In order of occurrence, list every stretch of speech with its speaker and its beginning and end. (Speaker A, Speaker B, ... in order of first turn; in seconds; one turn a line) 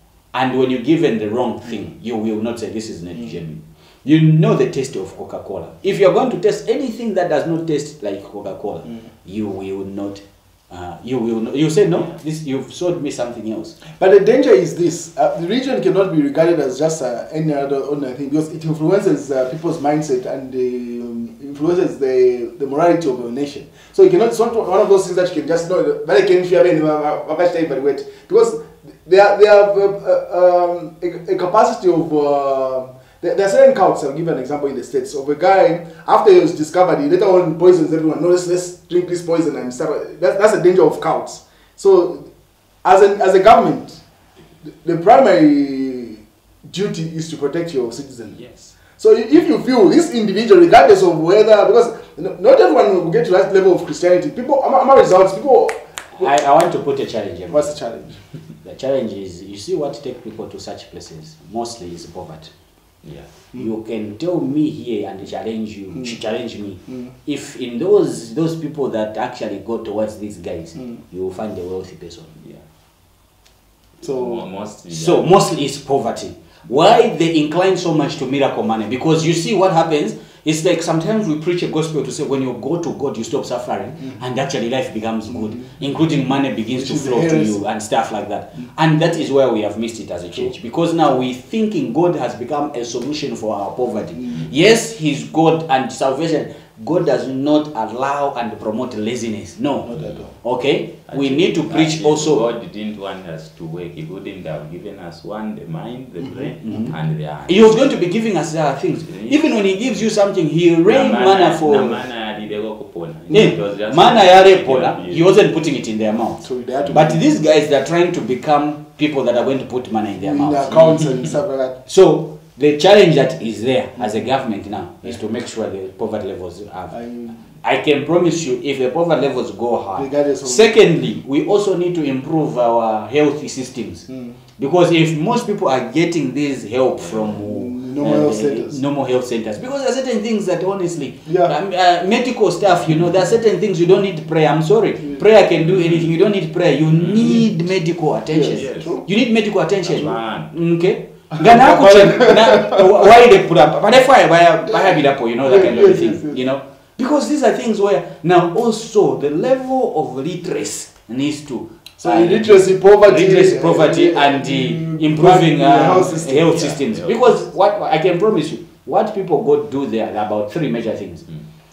Speaker A: 0.3-13.8
Speaker B: 14.0-42.3
Speaker B: 42.8-44.0
Speaker B: 44.6-48.4
Speaker C: 48.4-48.8
Speaker B: 49.0-56.3
Speaker A: 56.2-57.8
Speaker B: 57.5-58.2
Speaker A: 58.6-62.5
Speaker C: 63.0-63.3
Speaker A: 63.5-72.4
Speaker C: 74.0-75.3
Speaker B: 74.0-74.4
Speaker A: 74.9-102.5
Speaker B: 85.3-85.7
Speaker B: 86.8-87.6
Speaker B: 99.9-100.3
Speaker C: 100.0-100.2
Speaker C: 101.1-108.0
Speaker A: 106.6-107.0
Speaker A: 107.5-112.0
Speaker C: 109.1-110.0
Speaker C: 110.9-115.3
Speaker A: 113.3-120.9
Speaker B: 116.4-117.3
Speaker C: 116.8-117.1
Speaker B: 120.2-121.8
Speaker A: 121.9-127.0
Speaker B: 126.9-127.3
Speaker A: 127.6-171.3
Speaker B: 130.0-130.8
Speaker B: 134.1-134.4
Speaker C: 137.0-137.4
Speaker B: 137.5-138.8
Speaker B: 141.3-141.5
Speaker C: 145.6-146.1
Speaker C: 146.9-147.5
Speaker B: 148.3-149.0
Speaker C: 148.5-149.1
Speaker C: 149.8-150.5
Speaker B: 151.3-153.0
Speaker B: 155.4-156.4
Speaker B: 162.0-166.5
Speaker C: 165.9-167.3